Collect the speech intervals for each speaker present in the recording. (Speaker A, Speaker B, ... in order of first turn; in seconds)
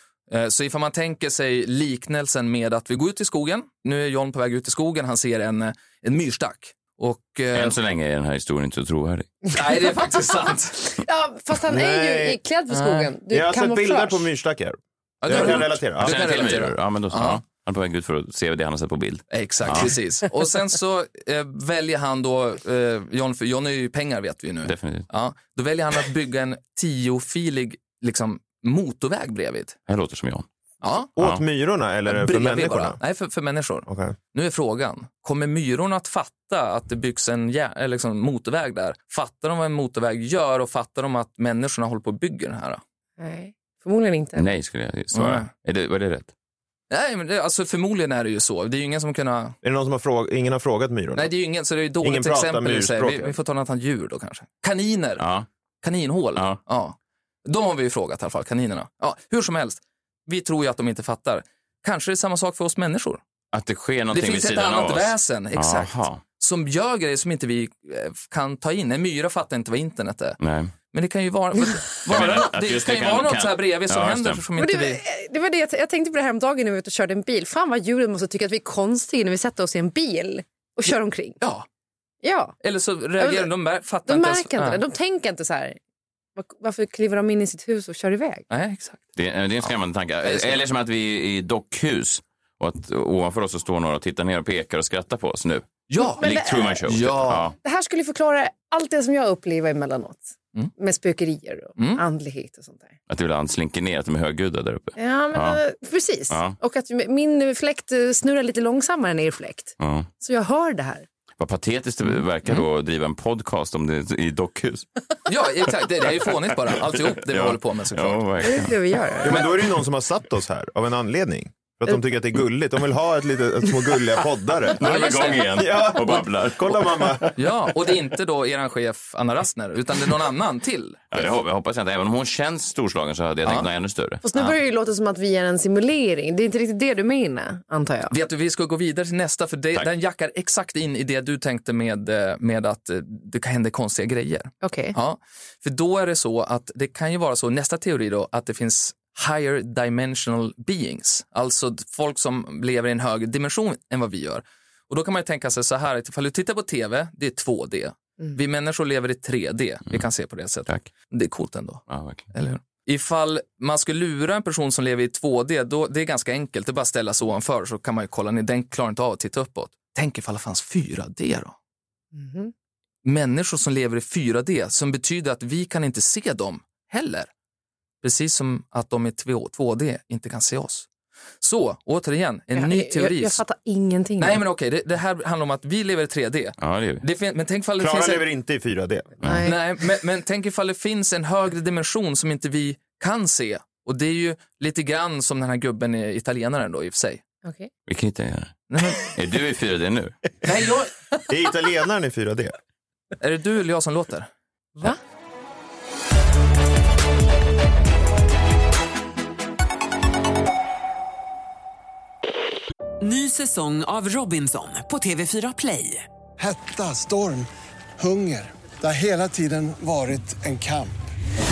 Speaker A: 0.3-7.8, 9.5-10.9, 12.7-13.1, 15.2-17.4, 19.3-29.8, 30.8-31.1, 32.1-42.8, 45.1-45.5, 46.9-49.6, 51.1-55.2, 55.8-63.2, 64.1-70.4, 70.9-75.0, 81.4-81.7, 82.6-84.8, 88.5-89.0, 90.2-90.6, 95.9-96.3, 96.8-97.5, 101.8-102.0, 112.1-112.6, 115.3-118.2, 124.8-125.6, 127.3-131.3, 138.1-161.8, 162.3-171.5, 173.0-177.3, 178.0-180.9, 181.4-183.4, 184.2-188.2, 189.4-197.2, 198.7-199.1, 200.4-200.9, 203.2-204.3
Speaker B: 7.5-9.4, 15.3-19.9, 24.6-25.1, 29.9-30.4, 44.4-46.3, 55.2-55.5, 56.3-56.6, 63.5-66.2, 70.4-70.7, 72.0-74.4, 89.2-97.5, 103.1-105.6, 106.3-106.5, 109.8-110.1, 111.4-114.9, 116.0-118.8, 124.8-127.3, 131.1-134.6, 161.9-162.2, 186.6-187.0, 197.9-200.2
Speaker C: 10.9-14.3, 43.2-44.5, 74.6-81.4, 82.2-82.5, 83.2-83.5, 84.1-85.8, 86.4-88.5, 96.0-96.8, 97.6-102.9, 105.0-111.0, 118.4-119.4, 134.2-138.1, 144.6-144.9, 172.1-172.5, 182.5-184.4, 189.2-189.6, 197.4-197.7
Speaker D: 11.7-12.4, 13.3-16.3, 31.1-33.0, 33.9-34.1, 49.6-51.3, 52.0-53.4, 119.2-127.3, 187.8-189.2, 201.3-202.5
Speaker E: 213.0-216.1
Speaker F: 216.4-221.0